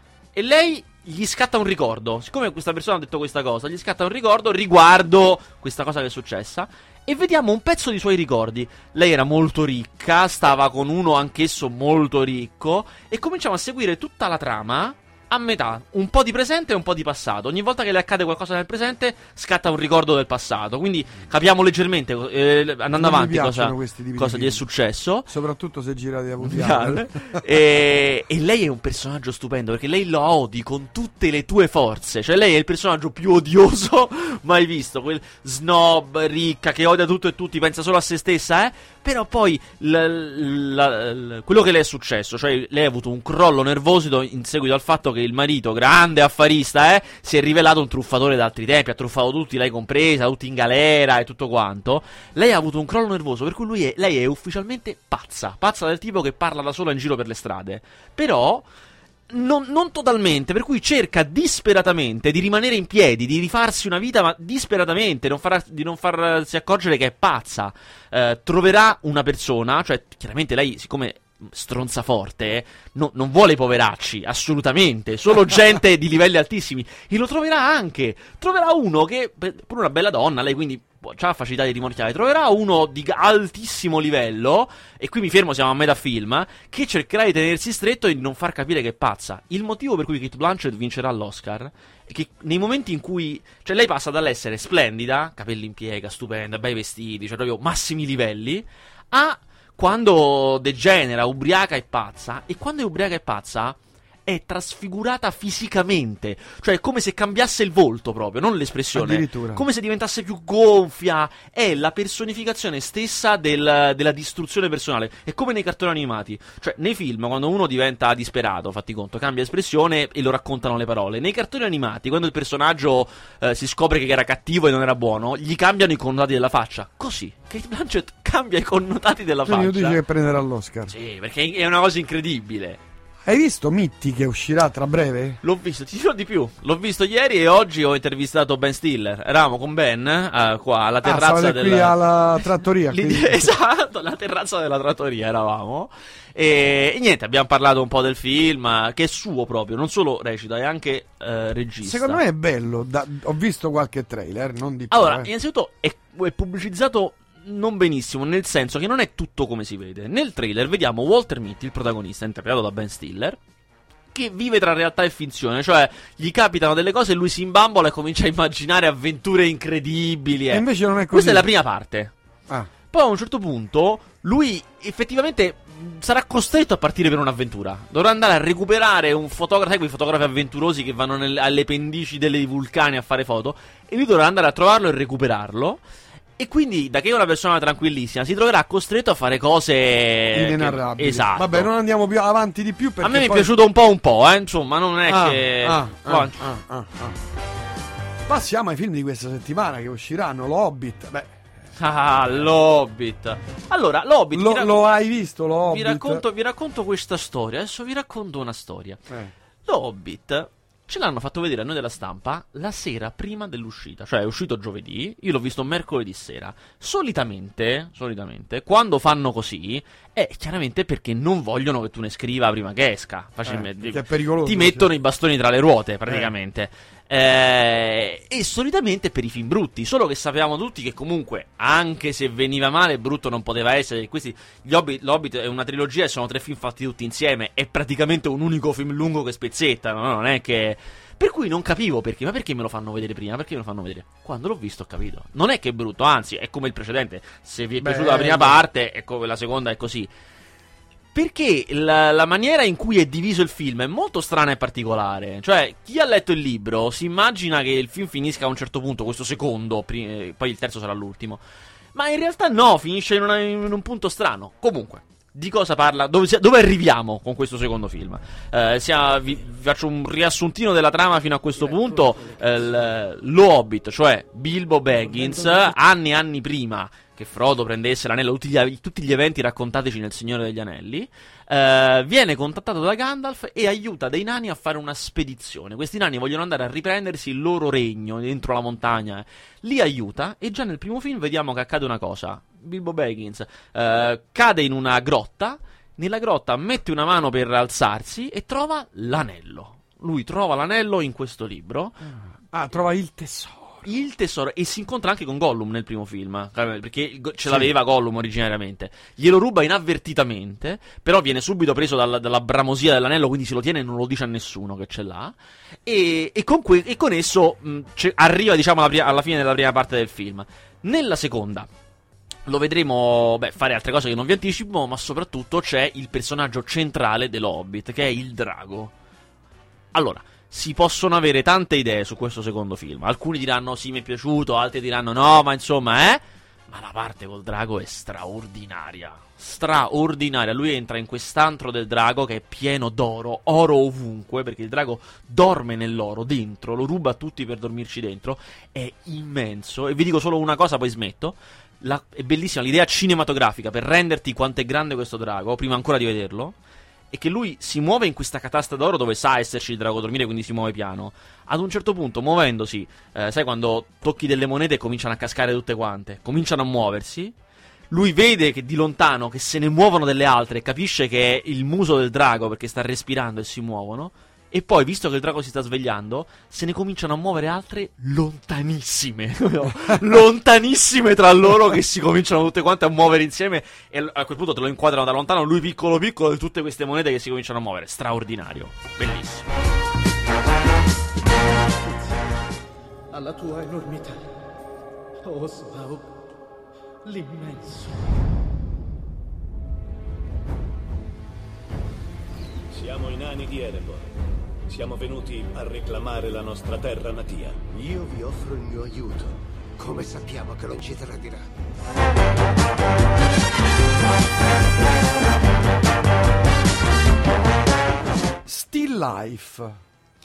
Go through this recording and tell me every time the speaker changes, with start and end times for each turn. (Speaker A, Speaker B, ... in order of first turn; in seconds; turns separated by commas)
Speaker A: 0.3-25.3, Speaker B: 22.9-24.6, Speaker B: 25.3-27.4, Speaker A: 26.4-58.6, Speaker A: 59.3-130.0, Speaker B: 108.9-109.6, Speaker B: 129.4-130.9, Speaker A: 130.9-132.8, Speaker B: 133.2-135.4, Speaker A: 135.4-142.0, Speaker B: 141.0-143.5, Speaker A: 142.9-152.2, Speaker B: 151.8-155.3, Speaker A: 154.9-163.4, Speaker A: 164.1-172.1, Speaker B: 170.5-171.5, Speaker A: 172.9-185.8, Speaker A: 186.4-191.7, Speaker B: 190.3-193.5, Speaker A: 193.0-196.4, Speaker B: 195.1-197.2, Speaker B: 198.3-201.3, Speaker A: 201.8-204.9, Speaker B: 204.3-206.2, Speaker A: 205.7-209.0, Speaker B: 209.1-209.3, Speaker A: 209.6-250.1, Speaker B: 223.4-224.9, Speaker B: 247.8-248.6, Speaker A: 251.1-261.4, Speaker A: 261.9-302.0, Speaker B: 302.5-303.9, Speaker A: 303.8-315.3, Speaker B: 307.4-307.7, Speaker A: 315.9-321.7, Speaker A: 322.4-328.9, Speaker A: 329.9-356.6, Speaker A: 357.1-367.3, Speaker A: 367.9-389.5, Speaker C: 393.1-394.3, Speaker C: 395.2-396.1, Speaker C: 397.0-398.0, Speaker D: 402.7-404.1, Speaker D: 404.7-407.7, Speaker E: 407.7-411.5, Speaker B: 418.4-419.8